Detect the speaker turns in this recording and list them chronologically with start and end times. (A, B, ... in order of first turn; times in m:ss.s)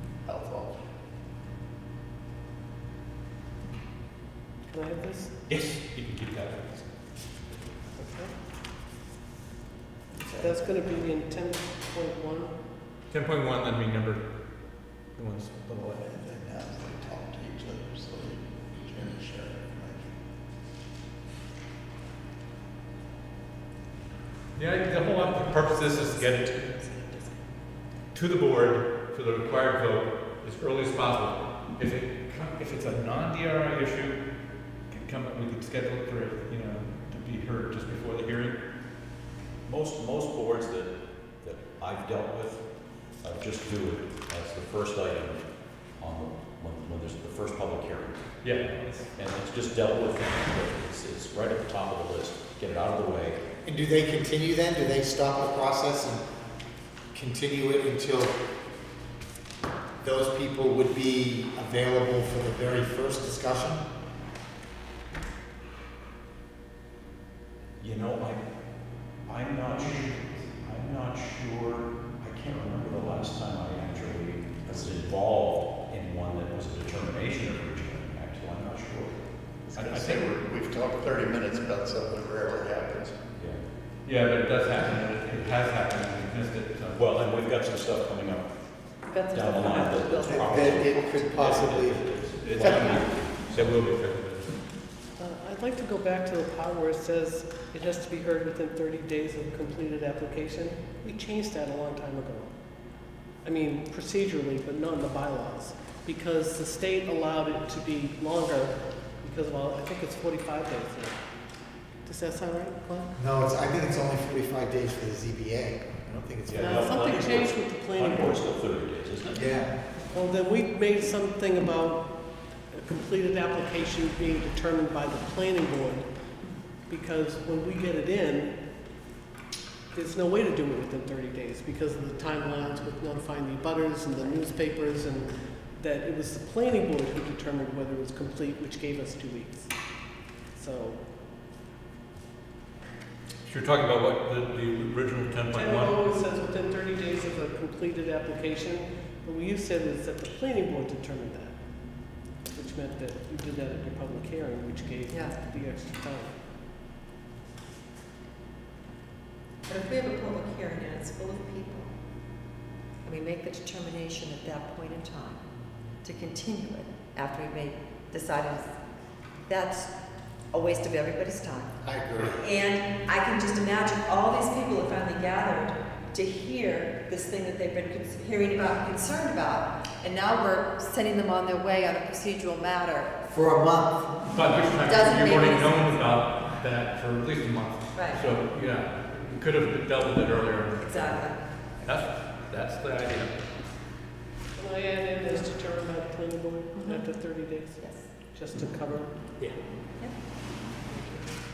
0:00.2-0:00.8 A
0:04.7-0:05.3 B
0:05.5-0:06.8 C
0:08.0-0:08.3 B
0:10.1-0:10.5 A
0:10.4-0:12.5 B
0:13.1-0:14.2 C
0:15.2-0:16.0 C
0:16.0-0:20.1 A
0:24.6-0:26.6 C
0:25.1-0:27.4 D
0:28.1-0:34.2 C
0:34.9-0:38.6 C
0:39.7-0:42.6 E
0:43.2-0:45.4 E
0:46.0-0:53.4 E
0:48.4-0:49.1 C
0:53.6-0:56.2 F
0:57.1-0:58.4 F
1:00.0-1:03.8 F
1:07.8-1:08.4 E
1:09.2-1:19.2 E
1:09.9-1:10.4 C
1:19.7-1:23.2 A
1:19.7-1:20.3 C
1:23.4-1:23.6 E
1:24.0-1:27.0 C
1:26.9-1:28.5 E
1:29.0-1:30.5 D
1:29.3-1:33.8 E
1:30.2-1:32.0 F
1:32.4-1:34.6 C
1:32.6-1:33.0 F
1:35.2-1:42.5 B
1:43.4-1:51.2 B
1:52.0-1:53.1 B
1:53.2-1:56.9 F
1:56.5-1:59.5 E
1:56.5-1:58.4 B
1:59.3-1:59.7 F
2:00.1-2:02.1 B
2:02.7-2:06.1 B
2:06.9-2:08.5 B
2:09.9-2:19.7 B
2:20.5-2:21.0 B
2:23.4-2:26.0 C
2:25.5-2:31.5 B
2:32.5-2:36.4 B
2:35.1-2:35.4 D
2:39.7-2:41.9 D
2:43.0-2:45.4 D
2:46.0-2:48.7 D
2:49.5-2:49.9 D
2:50.5-3:03.2 D
2:51.8-2:52.4 F
3:03.2-3:04.3 F
3:04.3-3:11.3 C
3:04.8-3:06.0 D
3:07.9-3:08.2 D
3:10.8-3:11.4 D
3:11.8-3:13.4 C
3:14.6-3:19.1 B
3:16.7-3:17.0 D
3:17.8-3:18.1 D
3:20.8-3:21.4 B